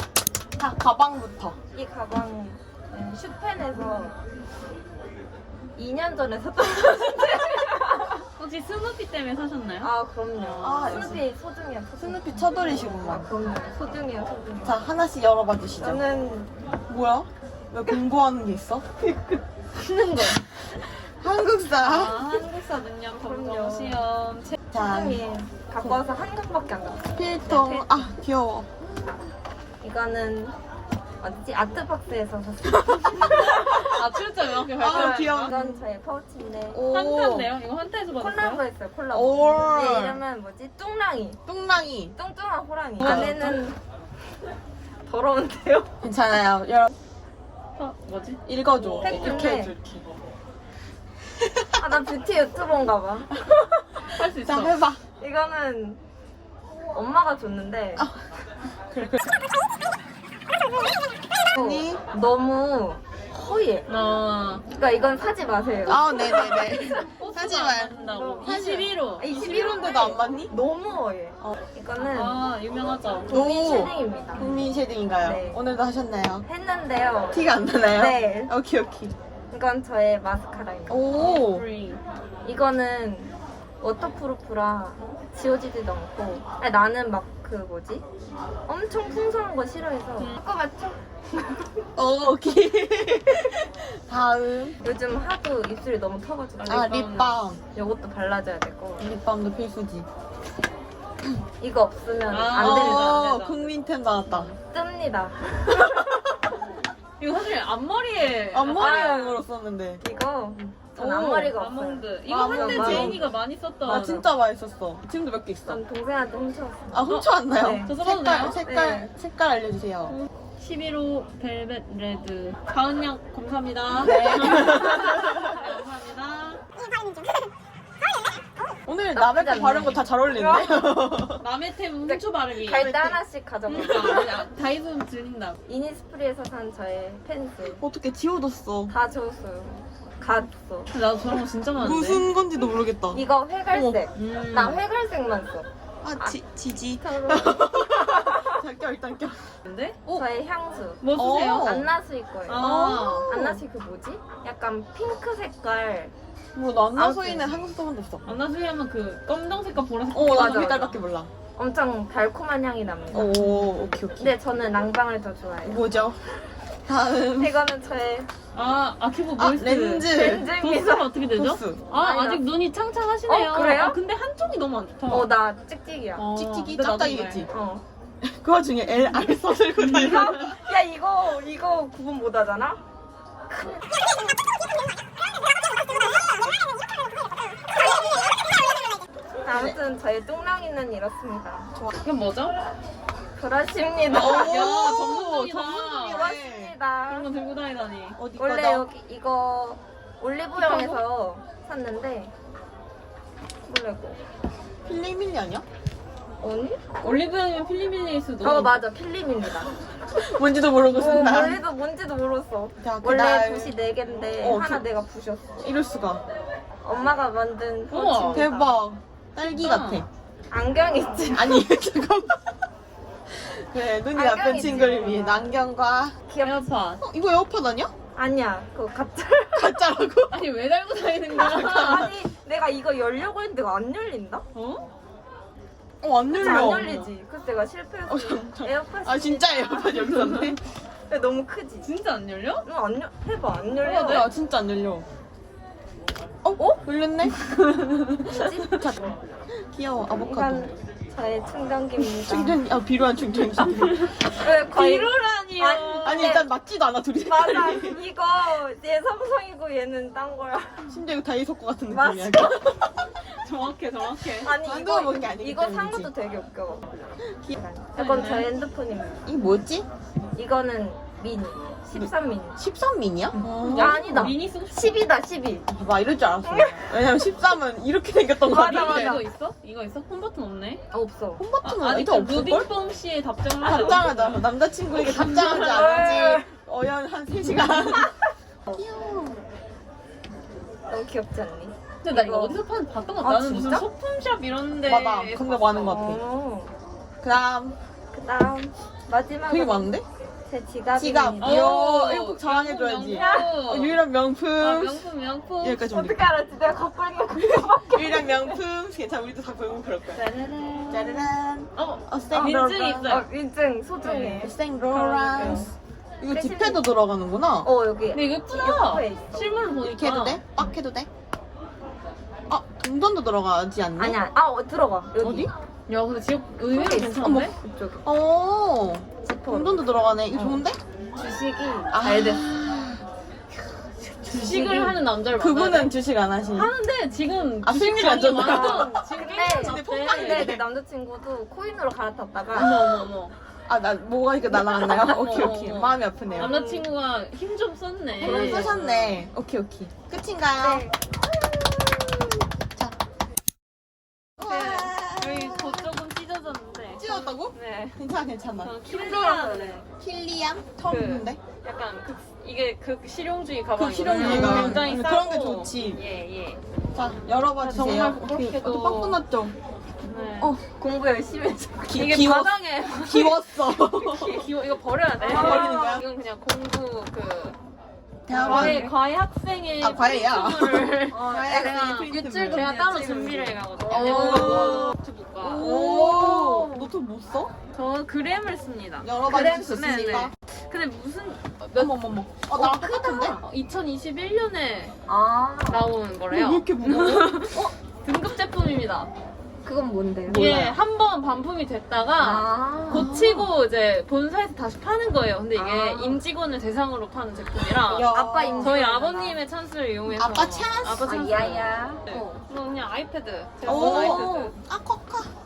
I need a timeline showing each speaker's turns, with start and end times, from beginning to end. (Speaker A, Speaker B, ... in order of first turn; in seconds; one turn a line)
Speaker A: 0.6-1.6
Speaker B: 1.7-4.2
Speaker B: 5.7-8.2
Speaker C: 8.3-11.2
Speaker B: 9.8-14.8
Speaker A: 10.6-11.2
Speaker A: 12.0-13.3
Speaker A: 14.6-16.0
Speaker B: 15.8-16.5
Speaker A: 16.9-18.9
Speaker B: 19.1-19.4
Speaker C: 19.8-20.4
Speaker A: 20.6-22.2
Speaker C: 21.7-24.6
Speaker B: 23.2-24.0
Speaker A: 24.7-25.2
Speaker B: 24.8-28.1
Speaker A: 27.1-28.7
Speaker B: 29.8-30.6
Speaker B: 31.2-33.5
Speaker A: 32.8-34.0
Speaker C: 33.2-35.5
Speaker A: 34.7-35.8
Speaker B: 34.8-36.8
Speaker A: 36.7-37.5
Speaker C: 36.9-38.6
Speaker B: 38.2-41.4
Speaker A: 39.1-40.2
Speaker A: 41.5-42.1
Speaker B: 42.1-43.8
Speaker A: 43.0-43.6
Speaker C: 43.0-43.5
Speaker B: 45.0-45.9
Speaker A: 46.0-46.9
Speaker C: 47.8-49.2
Speaker A: 48.5-50.0
Speaker B: 49.0-49.7
Speaker A: 51.4-51.8
Speaker B: 51.8-54.0
Speaker C: 54.0-54.8
Speaker A: 54.4-55.0
Speaker B: 55.2-56.0
Speaker B: 56.9-58.1
Speaker A: 58.0-58.2
Speaker A: 58.9-59.3
Speaker B: 61.5-63.9
Speaker A: 61.5-62.0
Speaker C: 63.9-64.6
Speaker B: 64.7-66.8
Speaker A: 65.8-70.5
Speaker C: 67.0-69.3
Speaker B: 68.0-68.5
Speaker B: 69.2-72.4
Speaker C: 72.0-73.3
Speaker B: 73.3-74.6
Speaker A: 73.3-76.4
Speaker B: 75.2-75.6
Speaker B: 76.4-78.5
Speaker A: 77.3-79.1
Speaker B: 79.5-81.1
Speaker A: 80.9-81.7
Speaker C: 81.1-82.0
Speaker B: 82.4-88.0
Speaker B: 88.7-91.7
Speaker A: 92.0-94.8
Speaker B: 94.8-96.9
Speaker C: 96.6-97.4
Speaker A: 96.6-97.6
Speaker B: 97.7-99.0
Speaker A: 99.0-100.1
Speaker B: 101.6-103.2
Speaker C: 102.3-103.7
Speaker A: 102.6-104.5
Speaker B: 104.6-105.6
Speaker A: 105.7-106.2
Speaker C: 107.2-109.2
Speaker A: 108.5-110.0
Speaker B: 108.7-109.4
Speaker B: 110.0-113.3
Speaker A: 110.9-111.5
Speaker C: 111.0-114.2
Speaker A: 112.3-113.2
Speaker A: 113.8-115.8
Speaker B: 113.8-114.2
Speaker B: 115.7-117.9
Speaker A: 116.9-120.2
Speaker C: 117.1-118.6
Speaker B: 118.6-119.1
Speaker C: 120.1-126.7
Speaker A: 123.9-125.6
Speaker A: 126.7-127.5
Speaker A: 128.8-131.4
Speaker B: 129.1-131.0
Speaker C: 131.4-132.9
Speaker B: 132.1-134.4
Speaker A: 132.7-133.2
Speaker C: 133.7-135.6
Speaker B: 135.7-137.8
Speaker A: 137.8-138.9
Speaker B: 138.9-140.9
Speaker C: 140.9-142.2
Speaker A: 141.7-144.0
Speaker B: 143.1-146.3
Speaker C: 144.1-144.8
Speaker A: 146.0-149.6
Speaker B: 147.0-148.6
Speaker C: 149.6-150.2
Speaker B: 150.1-156.1
Speaker C: 151.0-151.8
Speaker A: 151.1-151.9
Speaker C: 152.5-153.6
Speaker A: 152.6-153.6
Speaker A: 156.5-158.3
Speaker B: 156.9-157.6
Speaker C: 158.2-160.9
Speaker A: 160.1-161.3
Speaker B: 160.2-160.9
Speaker B: 161.6-163.4
Speaker A: 163.1-164.3
Speaker C: 163.2-163.9
Speaker B: 164.2-165.8
Speaker A: 165.6-166.2
Speaker A: 166.8-167.5
Speaker B: 167.4-168.3
Speaker C: 168.5-175.3
Speaker A: 169.4-170.5
Speaker B: 170.1-171.1
Speaker A: 171.3-171.8
Speaker B: 171.9-172.4
Speaker B: 173.3-174.0
Speaker B: 175.1-176.2
Speaker C: 176.2-177.5
Speaker A: 176.3-177.5
Speaker B: 177.5-177.8
Speaker A: 178.2-180.7
Speaker B: 179.8-182.8
Speaker C: 179.9-180.1
Speaker B: 183.5-183.8
Speaker B: 189.4-191.8
Speaker A: 189.5-189.8
Speaker C: 192.0-192.5
Speaker B: 193.4-194.7
Speaker A: 194.1-196.7
Speaker C: 194.1-196.3
Speaker B: 196.1-197.3
Speaker C: 197.1-198.2
Speaker A: 198.2-198.9
Speaker B: 198.4-202.3
Speaker C: 200.6-201.0
Speaker A: 200.6-200.9
Speaker B: 203.6-204.2
Speaker A: 204.8-205.6
Speaker B: 206.4-207.2
Speaker C: 207.0-208.8
Speaker B: 208.4-209.7
Speaker A: 210.1-211.6
Speaker B: 210.9-215.5
Speaker A: 212.8-213.7
Speaker A: 214.4-214.8
Speaker A: 215.6-216.2
Speaker B: 216.8-218.7
Speaker C: 217.9-218.5
Speaker A: 218.3-220.1
Speaker C: 219.4-220.0
Speaker B: 220.5-221.7
Speaker A: 221.3-222.6
Speaker A: 223.3-226.2
Speaker B: 224.1-225.5
Speaker B: 226.3-226.6
Speaker C: 226.4-227.0
Speaker A: 227.0-227.9
Speaker B: 228.1-229.8
Speaker A: 229.5-230.4
Speaker C: 230.3-232.2
Speaker B: 231.3-234.4
Speaker A: 231.4-231.8
Speaker C: 234.5-234.8
Speaker A: 236.0-237.1
Speaker B: 236.3-240.3
Speaker C: 236.4-236.8
Speaker A: 238.1-240.6
Speaker C: 239.9-240.5
Speaker B: 241.1-241.9
Speaker C: 241.8-242.7
Speaker B: 242.6-244.3
Speaker A: 243.8-245.1
Speaker A: 246.4-247.3
Speaker C: 247.5-248.3
Speaker B: 248.2-249.1
Speaker A: 248.5-250.7
Speaker B: 250.2-252.6
Speaker A: 252.0-254.1
Speaker B: 254.3-256.5
Speaker C: 254.7-256.3
Speaker A: 256.0-258.0
Speaker B: 257.2-260.9
Speaker A: 260.9-263.0
Speaker B: 261.9-262.6
Speaker C: 263.2-264.5
Speaker B: 264.4-269.2
Speaker A: 264.6-266.1
Speaker C: 268.0-268.5
Speaker A: 269.2-269.9
Speaker B: 270.3-272.6
Speaker A: 271.9-274.3
Speaker B: 273.4-275.7
Speaker C: 273.4-275.1
Speaker A: 275.7-279.2
Speaker B: 276.4-276.9
Speaker B: 278.4-279.2
Speaker C: 278.5-280.8
Speaker B: 280.9-281.4
Speaker A: 281.4-282.7
Speaker C: 281.6-284.4
Speaker A: 283.6-288.1
Speaker C: 285.0-286.3
Speaker B: 285.1-286.5
Speaker B: 287.4-288.8
Speaker A: 288.7-289.4
Speaker B: 290.9-292.6
Speaker C: 292.0-295.9
Speaker B: 293.2-293.9
Speaker A: 294.8-296.2
Speaker B: 295.8-296.7
Speaker A: 297.2-297.8
Speaker B: 298.1-299.9
Speaker A: 299.5-300.0
Speaker B: 300.4-301.6
Speaker A: 300.9-305.1
Speaker C: 301.4-303.9
Speaker B: 303.1-303.5
Speaker C: 304.6-305.9
Speaker A: 305.6-306.2
Speaker B: 305.9-308.6
Speaker A: 307.8-310.2
Speaker C: 310.1-313.3
Speaker A: 310.9-313.2
Speaker B: 313.0-314.5
Speaker C: 314.0-315.7
Speaker A: 314.4-317.7
Speaker B: 316.3-316.8
Speaker B: 317.6-319.5
Speaker C: 318.1-320.4
Speaker A: 319.8-321.1
Speaker A: 322.5-324.2
Speaker B: 324.0-325.5
Speaker A: 325.2-325.5
Speaker C: 325.9-327.5
Speaker B: 326.7-328.0
Speaker A: 327.1-327.5
Speaker A: 328.0-330.8
Speaker B: 329.2-330.6
Speaker B: 331.1-332.4
Speaker A: 331.9-333.0
Speaker A: 334.2-336.7
Speaker C: 334.2-335.9
Speaker C: 336.5-340.6
Speaker A: 337.6-340.6
Speaker B: 338.3-342.8
Speaker C: 342.5-343.3
Speaker A: 342.6-342.9
Speaker A: 343.7-346.5
Speaker C: 344.7-349.3
Speaker B: 346.4-346.9
Speaker A: 348.2-350.9
Speaker B: 348.2-348.7
Speaker B: 350.6-351.1
Speaker A: 354.4-355.9
Speaker C: 354.4-358.0
Speaker A: 356.9-358.7
Speaker C: 358.6-359.8
Speaker B: 358.9-359.9
Speaker A: 360.0-361.4
Speaker C: 360.9-366.6
Speaker A: 363.7-366.0
Speaker B: 364.1-364.8
Speaker A: 366.9-369.5
Speaker C: 367.6-369.2
Speaker C: 370.0-370.6
Speaker B: 370.4-372.2
Speaker A: 371.9-374.5
Speaker C: 371.9-377.6
Speaker B: 375.2-376.0
Speaker A: 375.2-376.0
Speaker A: 378.2-378.9
Speaker C: 378.3-385.8
Speaker B: 378.3-378.9
Speaker A: 379.8-382.7
Speaker B: 381.1-384.9
Speaker A: 384.0-387.5
Speaker B: 385.6-386.9
Speaker C: 387.7-391.9
Speaker A: 389.0-390.3
Speaker B: 389.3-389.8
Speaker A: 391.8-393.4
Speaker B: 392.5-393.4
Speaker C: 393.4-394.9
Speaker B: 395.1-395.9
Speaker C: 395.7-399.1
Speaker A: 396.3-397.4
Speaker B: 399.6-400.5
Speaker A: 400.3-400.8
Speaker C: 400.3-414.6
Speaker B: 402.2-403.1
Speaker A: 402.9-403.5
Speaker B: 405.5-406.2
Speaker A: 407.8-408.8
Speaker B: 408.1-409.4
Speaker A: 410.1-411.4
Speaker B: 411.0-412.4
Speaker A: 413.6-415.3
Speaker B: 413.7-414.3